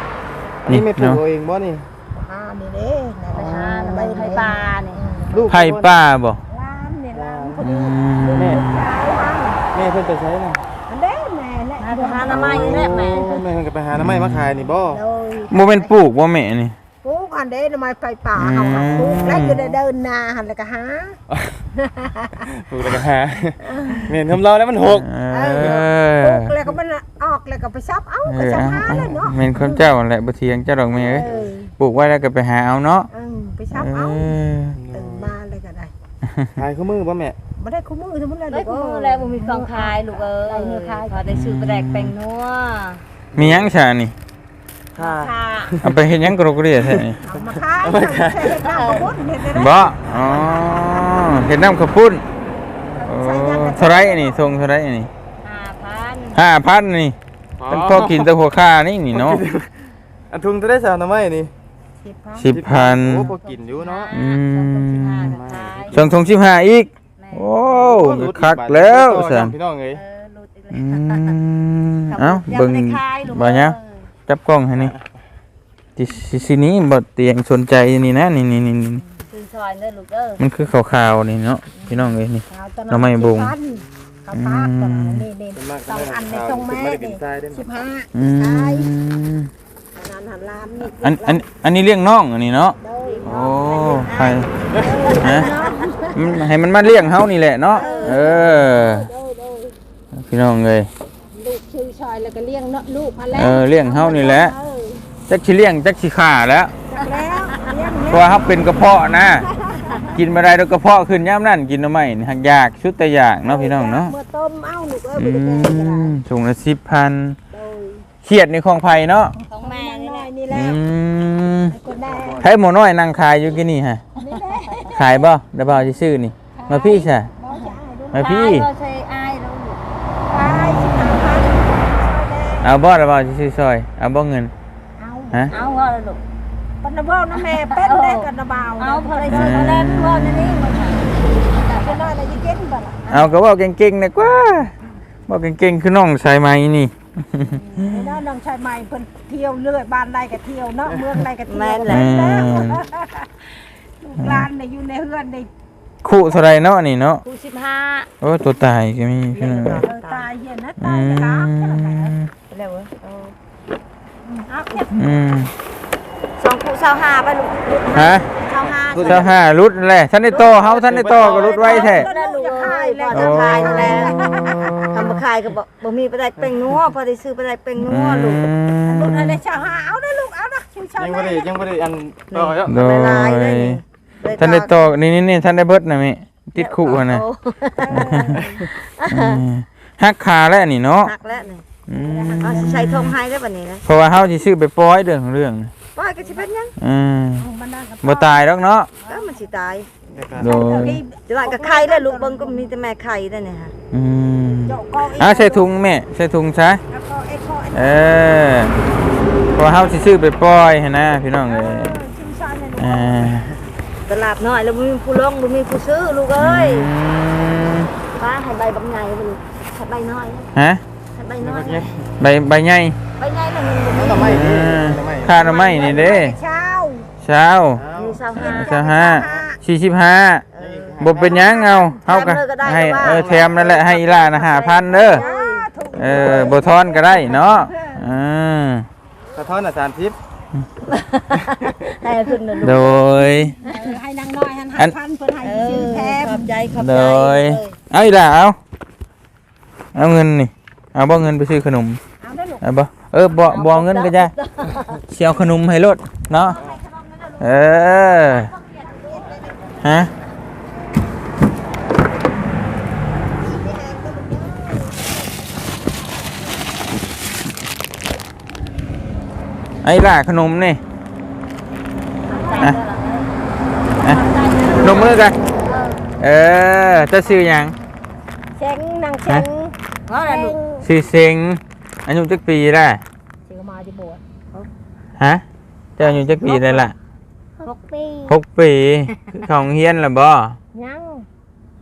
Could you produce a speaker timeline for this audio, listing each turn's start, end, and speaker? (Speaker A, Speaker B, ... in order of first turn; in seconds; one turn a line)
Speaker A: 0.7-1.9
Speaker B: 0.7-1.2
Speaker C: 2.1-5.5
Speaker D: 3.3-5.0
Speaker A: 5.3-5.9
Speaker B: 5.5-6.4
Speaker C: 6.5-9.7
Speaker A: 7.1-7.6
Speaker B: 7.6-8.9
Speaker A: 8.3-8.7
Speaker A: 9.7-10.6
Speaker C: 10.9-13.4
Speaker D: 11.8-13.4
Speaker A: 12.2-15.0
Speaker B: 14.0-14.5
Speaker C: 14.8-15.9
Speaker B: 15.5-16.8
Speaker C: 17.0-21.2
Speaker B: 18.3-19.8
Speaker C: 21.7-22.4
Speaker A: 22.4-25.1
Speaker C: 23.7-24.1
Speaker B: 24.9-26.5
Speaker C: 25.3-29.8
Speaker B: 28.2-33.1
Speaker A: 30.9-31.4
Speaker C: 31.1-31.7
Speaker C: 33.1-34.4
Speaker B: 33.7-34.8
Speaker A: 34.8-35.3
Speaker C: 34.9-35.9
Speaker B: 36.3-36.5
Speaker A: 36.6-37.4
Speaker C: 37.5-41.2
Speaker D: 38.5-43.0
Speaker B: 41.3-42.1
Speaker B: 43.3-44.1
Speaker A: 43.4-43.7
Speaker A: 45.0-46.0
Speaker D: 45.0-45.8
Speaker B: 45.8-47.2
Speaker A: 46.8-48.9
Speaker C: 47.2-50.7
Speaker D: 48.5-49.1
Speaker B: 49.5-52.2
Speaker C: 52.9-54.5
Speaker B: 53.0-55.1
Speaker D: 55.4-56.4
Speaker B: 56.3-57.1
Speaker A: 57.6-58.3
Speaker B: 57.7-59.4
Speaker A: 59.1-59.7
Speaker A: 60.3-61.5
Speaker C: 62.0-62.5
Speaker B: 62.4-63.3
Speaker A: 62.5-64.0
Speaker D: 62.8-66.0
Speaker C: 63.9-64.3
Speaker B: 64.1-65.3
Speaker A: 65.2-66.1
Speaker B: 65.9-69.5
Speaker D: 67.2-67.6
Speaker A: 67.7-70.0
Speaker D: 69.9-71.4
Speaker B: 70.7-73.8
Speaker D: 72.1-74.1
Speaker B: 74.3-74.9
Speaker B: 76.0-79.0
Speaker D: 79.3-80.4
Speaker B: 80.4-83.5
Speaker C: 82.5-88.9
Speaker B: 84.3-85.3
Speaker A: 85.5-87.7
Speaker B: 88.1-89.5
Speaker C: 89.9-91.5
Speaker B: 90.8-94.5
Speaker C: 92.8-93.6
Speaker D: 93.0-96.0
Speaker A: 94.7-95.2
Speaker C: 94.8-96.5
Speaker B: 95.2-95.5
Speaker B: 96.1-99.1
Speaker C: 97.7-99.8
Speaker D: 97.7-98.4
Speaker B: 100.2-100.9
Speaker C: 101.3-105.0
Speaker B: 103.3-104.5
Speaker B: 105.3-106.7
Speaker C: 106.9-108.6
Speaker B: 108.1-109.5
Speaker C: 109.4-110.1
Speaker B: 110.1-114.1
Speaker C: 113.4-116.1
Speaker B: 115.1-117.4
Speaker C: 117.5-118.1
Speaker B: 118.2-119.3
Speaker C: 119.4-120.8
Speaker D: 119.5-120.3
Speaker B: 120.5-121.8
Speaker C: 121.7-122.4
Speaker A: 121.9-122.5
Speaker B: 122.4-124.0
Speaker C: 124.2-125.3
Speaker B: 124.9-127.3
Speaker C: 126.5-128.3
Speaker D: 127.5-129.8
Speaker B: 128.1-128.7
Speaker C: 130.3-132.7
Speaker B: 130.4-131.2
Speaker B: 132.6-134.5
Speaker C: 135.0-135.6
Speaker D: 135.5-136.2
Speaker C: 136.8-139.9
Speaker D: 137.4-142.1
Speaker B: 139.3-140.6
Speaker C: 141.8-143.3
Speaker B: 143.1-144.7
Speaker B: 145.3-148.0
Speaker C: 147.4-155.5
Speaker D: 151.4-152.7
Speaker B: 151.9-152.8
Speaker B: 154.2-154.5
Speaker B: 156.0-157.2
Speaker D: 157.2-158.1
Speaker B: 158.2-159.8
Speaker D: 159.3-160.3
Speaker C: 159.6-162.2
Speaker B: 160.8-162.3
Speaker D: 162.5-163.3
Speaker C: 164.2-164.9
Speaker B: 164.9-165.5
Speaker D: 166.4-169.4
Speaker B: 167.9-168.3
Speaker A: 168.6-169.3
Speaker B: 169.0-172.1
Speaker D: 170.2-174.1
Speaker A: 170.5-171.6
Speaker C: 171.5-174.7
Speaker B: 173.1-175.2
Speaker D: 174.8-178.5
Speaker B: 177.8-179.4
Speaker C: 178.8-181.5
Speaker A: 181.0-182.7
Speaker D: 182.3-184.7
Speaker B: 182.7-183.8
Speaker B: 184.4-187.2
Speaker D: 186.6-189.4
Speaker C: 187.8-188.6
Speaker B: 187.9-188.4
Speaker B: 189.1-191.1
Speaker D: 191.0-191.7
Speaker C: 191.4-192.9
Speaker B: 191.9-193.1
Speaker D: 192.4-193.8
Speaker B: 193.8-195.7
Speaker D: 195.9-196.7
Speaker C: 196.2-196.5
Speaker B: 196.8-197.5
Speaker C: 197.4-198.5
Speaker B: 198.0-198.9
Speaker C: 199.0-199.5
Speaker D: 199.1-199.9
Speaker A: 200.1-200.5
Speaker C: 200.3-202.7
Speaker B: 200.3-201.0
Speaker D: 201.3-203.7
Speaker B: 203.9-206.8
Speaker C: 204.7-205.7
Speaker C: 206.9-208.4
Speaker B: 207.7-208.8
Speaker C: 209.2-209.8
Speaker B: 209.5-212.0
Speaker C: 211.3-213.4
Speaker B: 212.8-213.5
Speaker D: 214.1-216.9
Speaker B: 216.4-217.9
Speaker D: 218.2-220.5
Speaker B: 220.5-220.8
Speaker D: 221.1-221.9
Speaker A: 221.4-222.1
Speaker B: 222.2-223.0
Speaker D: 223.2-224.4
Speaker A: 223.9-225.5
Speaker B: 224.2-226.3
Speaker D: 225.4-226.0
Speaker C: 225.5-227.1
Speaker B: 227.2-227.8
Speaker A: 227.7-228.2
Speaker D: 227.9-228.8
Speaker C: 228.3-229.6
Speaker B: 228.3-230.4
Speaker A: 229.2-229.4
Speaker D: 230.5-231.0
Speaker A: 230.6-231.5
Speaker B: 231.0-235.2
Speaker C: 231.3-232.0
Speaker D: 232.0-236.5
Speaker A: 233.0-233.8
Speaker C: 235.1-238.1
Speaker B: 235.9-238.9
Speaker A: 239.3-240.2
Speaker D: 240.9-243.1
Speaker B: 242.6-243.6
Speaker C: 243.6-246.5
Speaker D: 243.6-243.9
Speaker D: 245.4-247.8
Speaker B: 246.8-248.6
Speaker B: 249.9-252.0
Speaker C: 252.2-252.6
Speaker B: 252.6-254.3
Speaker D: 253.4-255.0
Speaker B: 255.1-256.6
Speaker D: 256.3-259.2
Speaker B: 257.4-258.5
Speaker C: 258.8-259.9
Speaker B: 259.8-260.1
Speaker C: 263.2-266.3
Speaker B: 269.8-270.8
Speaker C: 272.2-272.8
Speaker D: 272.3-273.3
Speaker C: 274.0-274.9
Speaker D: 274.0-276.0
Speaker B: 274.8-275.4
Speaker B: 276.2-277.8
Speaker C: 278.5-280.9
Speaker D: 280.1-280.6
Speaker B: 280.8-283.0
Speaker C: 283.4-284.2
Speaker B: 285.2-285.4
Speaker B: 286.0-286.9
Speaker C: 286.0-286.7
Speaker D: 286.3-286.8
Speaker C: 287.6-288.2
Speaker D: 287.6-288.2
Speaker B: 288.3-290.6
Speaker C: 290.7-291.3